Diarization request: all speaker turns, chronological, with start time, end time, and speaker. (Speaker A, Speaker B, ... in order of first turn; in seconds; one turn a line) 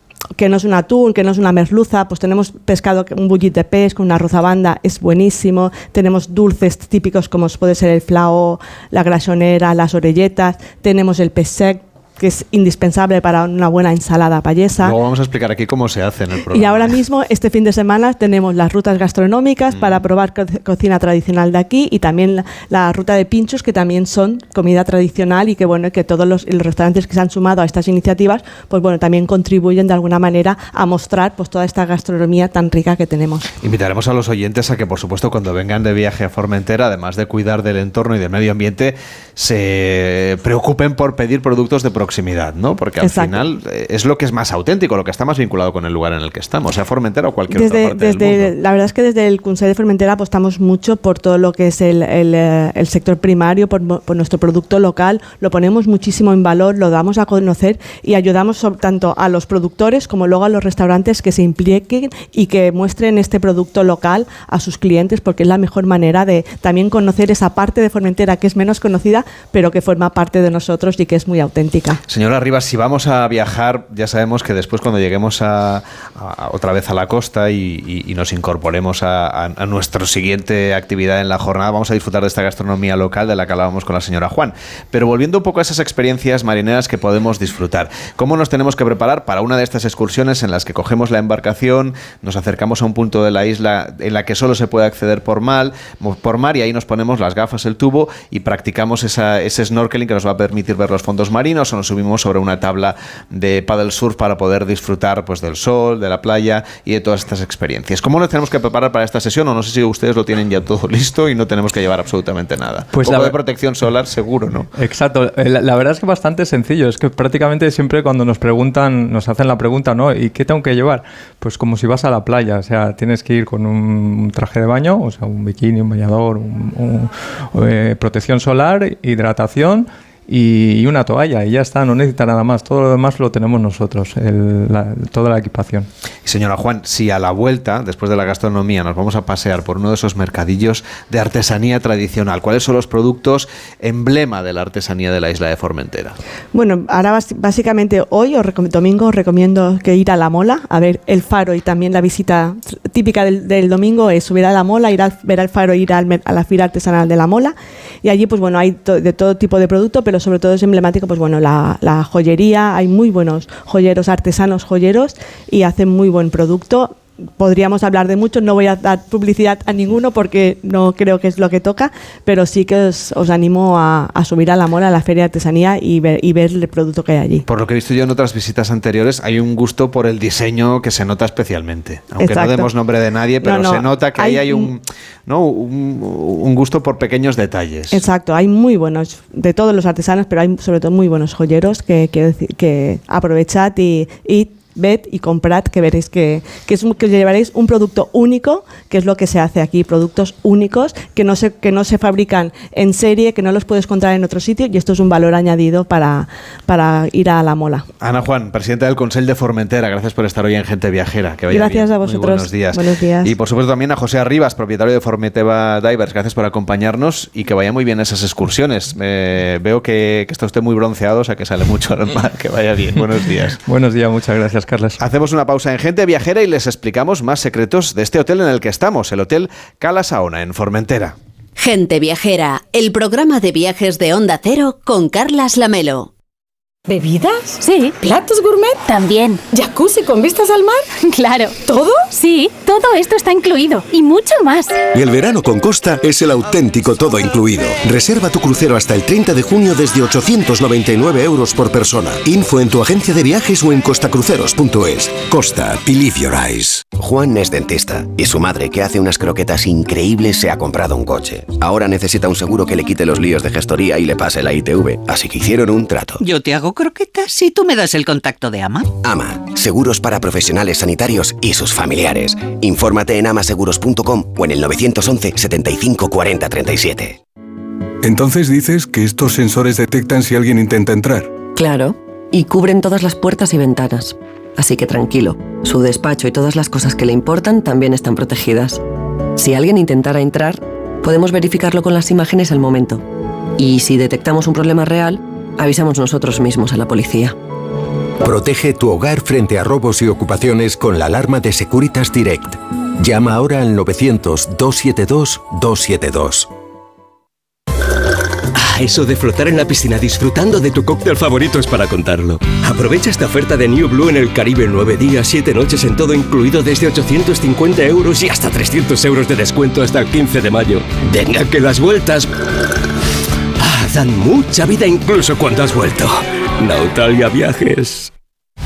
Speaker A: 0.4-14.9
Speaker B: 14.8-17.0
Speaker A: 16.5-33.5
Speaker B: 19.7-20.0
Speaker B: 33.6-48.5
Speaker A: 43.0-43.4
Speaker A: 47.5-72.0
Speaker B: 72.1-114.7
Speaker C: 112.9-113.4
Speaker C: 114.7-135.9
Speaker B: 136.2-146.2
Speaker A: 146.5-177.4
Speaker B: 177.5-188.0
Speaker A: 182.2-182.7
Speaker A: 183.4-184.7
Speaker A: 187.9-207.9
Speaker B: 208.0-223.6
Speaker A: 211.5-213.3
Speaker C: 223.6-225.0
Speaker B: 225.0-231.1
Speaker D: 231.6-236.1
Speaker E: 236.9-238.8
Speaker F: 237.6-237.9
Speaker D: 238.9-239.4
Speaker E: 239.5-240.8
Speaker F: 241.0-241.6
Speaker E: 241.7-242.1
Speaker F: 242.1-244.8
Speaker G: 244.9-256.8
Speaker H: 256.8-266.2
Speaker I: 266.2-268.9
Speaker H: 269.0-277.2
Speaker J: 278.0-281.3
Speaker K: 281.6-288.8
Speaker K: 289.4-293.0
Speaker K: 293.7-297.3
Speaker G: 298.2-306.4
Speaker L: 304.4-305.0
Speaker L: 308.5-322.3
Speaker L: 323.6-328.1